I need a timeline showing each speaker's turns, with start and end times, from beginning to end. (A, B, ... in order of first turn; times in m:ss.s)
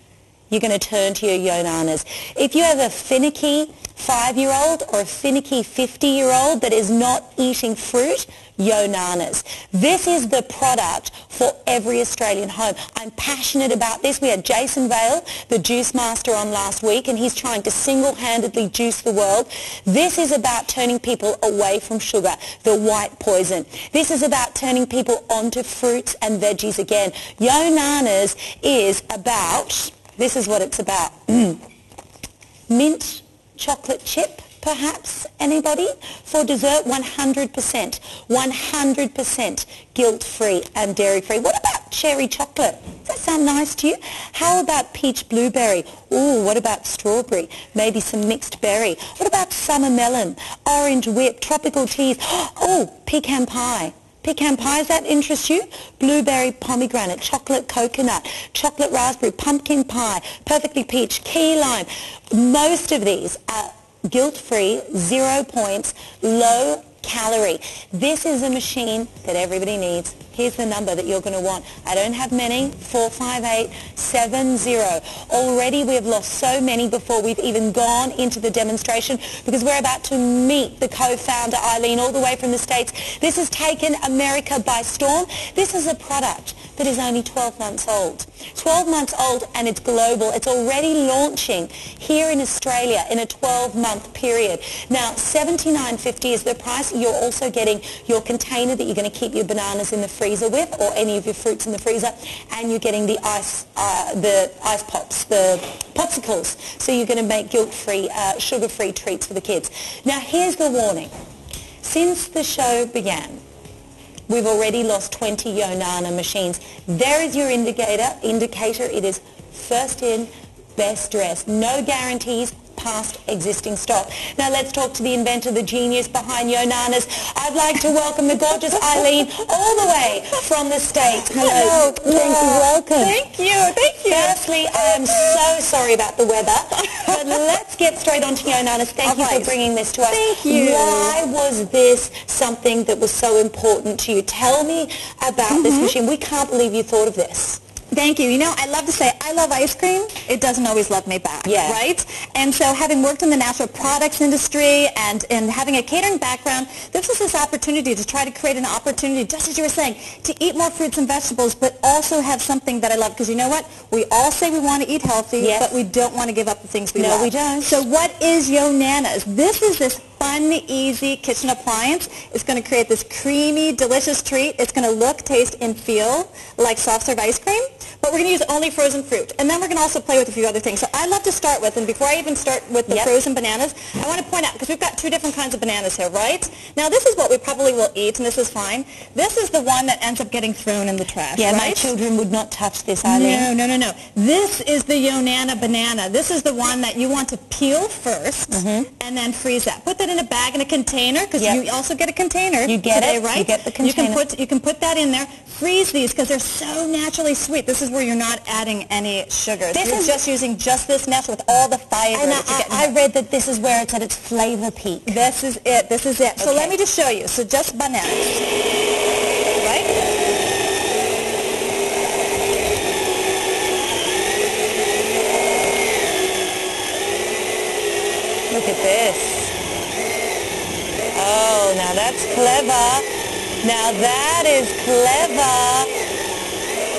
0:00.5-0:31.6 A
0:32.7-1:51.1 A
1:51.8-1:53.4 A
1:54.3-2:13.2 A
2:11.4-2:15.4 B
2:14.1-2:27.6 A
2:16.9-2:17.2 B
2:19.0-2:19.6 B
2:20.1-2:21.2 B
2:25.5-2:25.9 B
2:27.9-3:11.9 B
2:31.4-2:31.8 A
2:45.4-2:45.8 A
2:47.0-2:47.8 A
3:02.9-3:03.1 A
3:11.4-3:13.5 A
3:13.0-3:32.9 B
3:18.5-3:18.9 A
3:22.7-3:24.2 A
3:29.7-3:30.2 A
3:32.1-3:35.2 A
3:35.1-3:38.5 B
3:36.4-3:36.7 A
3:39.6-3:40.0 B
3:48.5-3:49.5 A
3:51.1-3:53.1 A
3:53.6-3:55.9 A